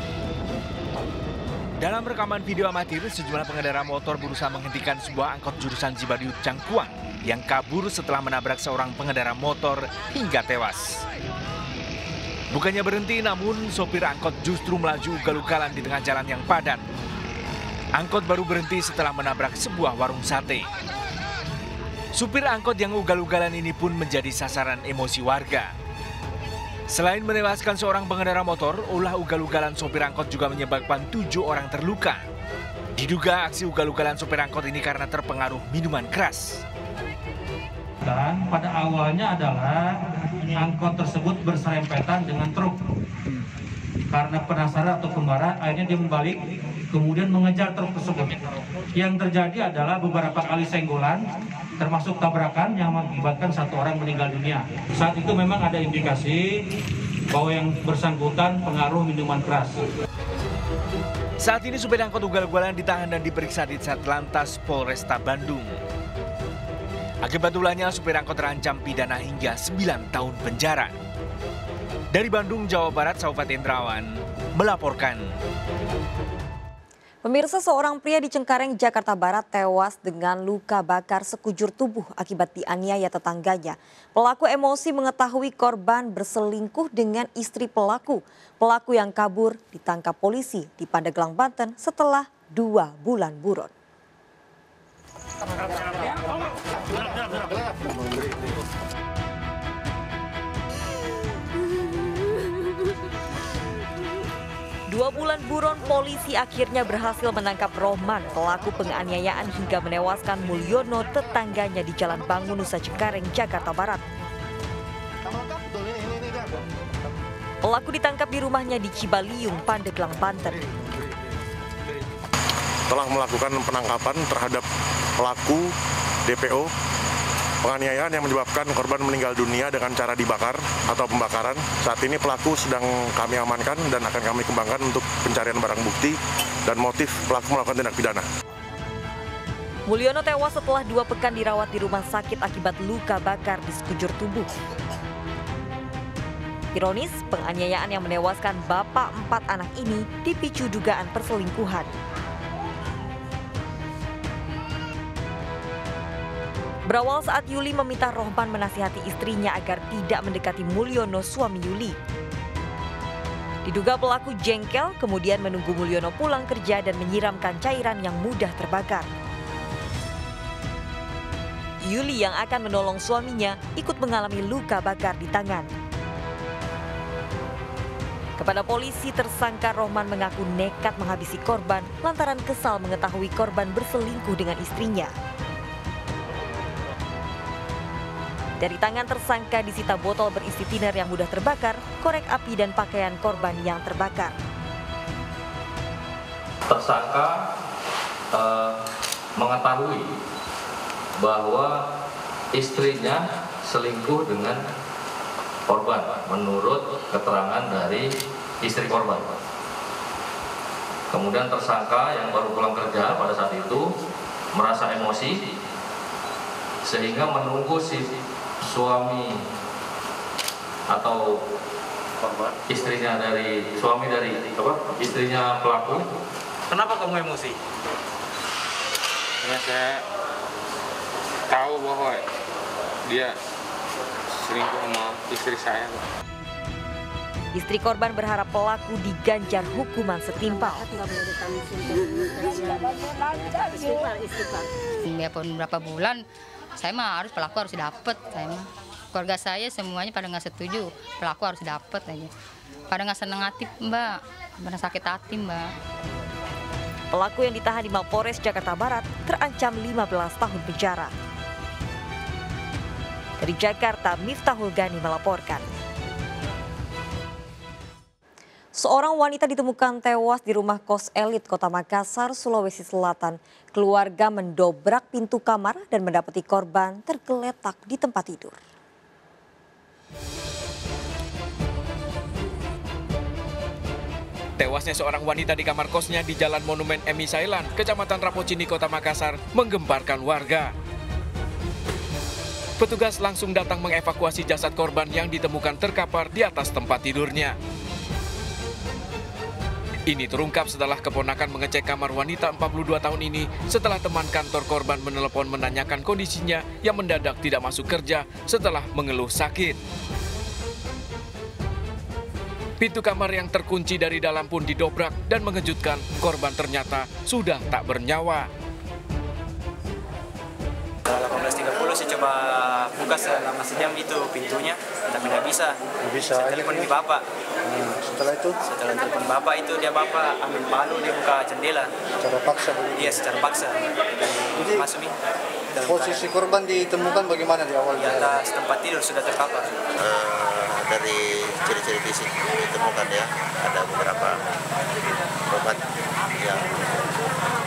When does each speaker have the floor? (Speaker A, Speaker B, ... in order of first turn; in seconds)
Speaker A: 1.8-11.0, 12.5-16.8, 18.0-20.7, 22.1-25.7, 26.9-32.2, 33.0-36.6, 61.4-65.7, 67.2-70.9, 72.1-75.2
Speaker B: 38.0-42.8, 44.1-48.4, 48.9-51.2, 51.8-56.6, 57.3-59.8
Speaker C: 77.2-93.7, 104.9-114.0, 117.6-120.6, 139.9-144.5, 146.7-151.9, 156.9-161.9, 163.6-169.1, 171.8-175.7, 178.4-185.1, 188.6-194.3, 237.5-240.9, 257.1-261.1, 263.4-265.7, 268.7-278.6
Speaker D: 122.9-124.6, 125.2-125.7, 126.2-126.7, 127.6-138.2
Speaker E: 196.7-197.4, 198.3-198.8, 199.3-200.1, 201.2-201.8, 202.5-204.6, 205.7-208.1, 208.6-209.3, 211.1-213.9, 214.5-215.5, 216.8-218.1, 218.6-219.4, 220.9-221.4, 222.7-226.1
Speaker F: 222.2-222.9, 340.0-344.4, 345.5-345.8, 346.4-347.0
Speaker G: 229.4-230.0, 231.5-232.2, 234.4-236.0
Speaker H: 245.0-246.2, 246.8-252.3, 252.9-255.7
Speaker I: 284.6-290.7, 292.8-297.6, 300.1-309.8, 312.8-318.5
Speaker J: 321.1-325.8, 326.3-327.2, 328.6-331.9, 332.9-335.1, 335.7-336.5, 337.9-339.7
Speaker K: 326.1-326.9, 327.7-328.6, 332.2-333.3, 334.6-334.8, 335.8-338.3